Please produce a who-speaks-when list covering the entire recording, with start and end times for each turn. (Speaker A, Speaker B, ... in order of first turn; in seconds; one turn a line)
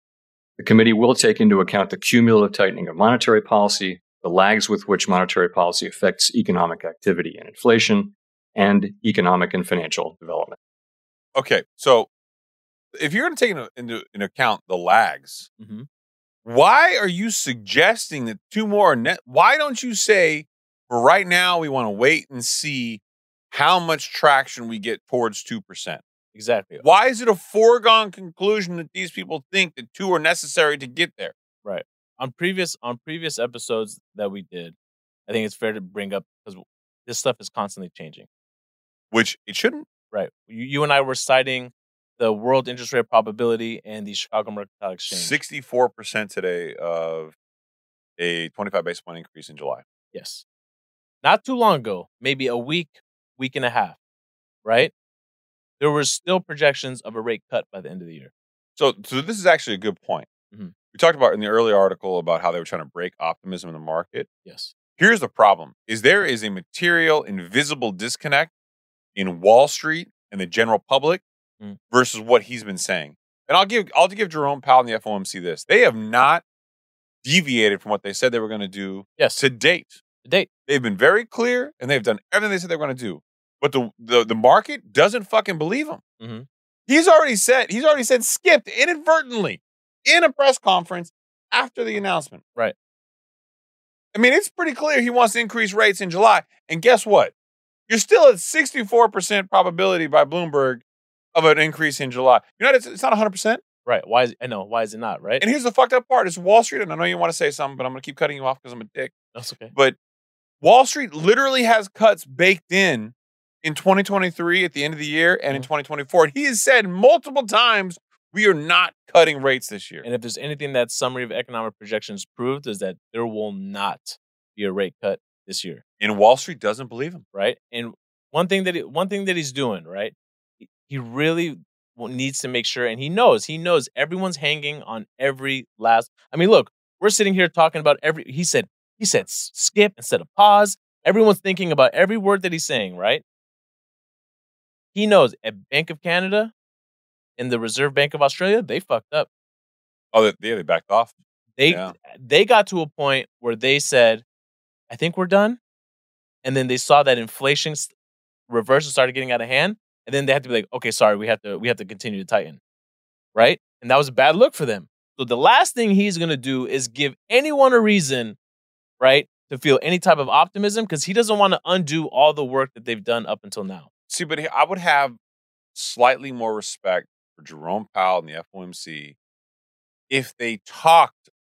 Speaker A: 0.6-10.6
Speaker B: 11.4-12.1
Speaker B: 12.9-15.5
Speaker C: 15.6-15.9
Speaker B: 16.4-26.0
Speaker C: 26.3-26.9
Speaker B: 26.8-31.3
Speaker C: 31.6-34.8
Speaker C: 35.3-38.3
Speaker B: 39.1-39.9
Speaker C: 40.1-45.4
Speaker B: 45.1-47.4
Speaker B: 48.2-49.8
Speaker C: 50.1-50.4
Speaker C: 51.2-54.0
Speaker C: 54.6-54.9
Speaker C: 55.8-58.3
Speaker B: 58.8-60.3
Speaker B: 60.9-64.3
Speaker C: 64.5-64.7
Speaker B: 65.0-68.5
Speaker B: 69.2-71.2
Speaker B: 71.9-76.4
Speaker B: 77.2-80.0
Speaker C: 79.2-79.4
Speaker B: 80.7-86.0
Speaker C: 86.2-86.5
Speaker B: 86.9-92.4
Speaker B: 94.1-97.3
Speaker B: 97.9-100.8
Speaker B: 101.3-103.6
Speaker C: 103.9-105.4
Speaker B: 105.4-109.1
Speaker C: 109.3-109.7
Speaker B: 110.6-120.0
Speaker C: 120.0-125.8
Speaker B: 126.0-127.2
Speaker C: 127.3-143.2
Speaker C: 144.9-146.5
Speaker C: 147.4-149.3
Speaker B: 150.1-151.1
Speaker C: 151.6-154.2
Speaker B: 151.7-151.9
Speaker C: 154.9-155.6
Speaker C: 156.4-157.9
Speaker C: 158.5-162.6
Speaker C: 163.3-168.4
Speaker C: 169.0-173.9
Speaker B: 174.1-175.2
Speaker B: 175.7-179.2
Speaker B: 180.1-181.3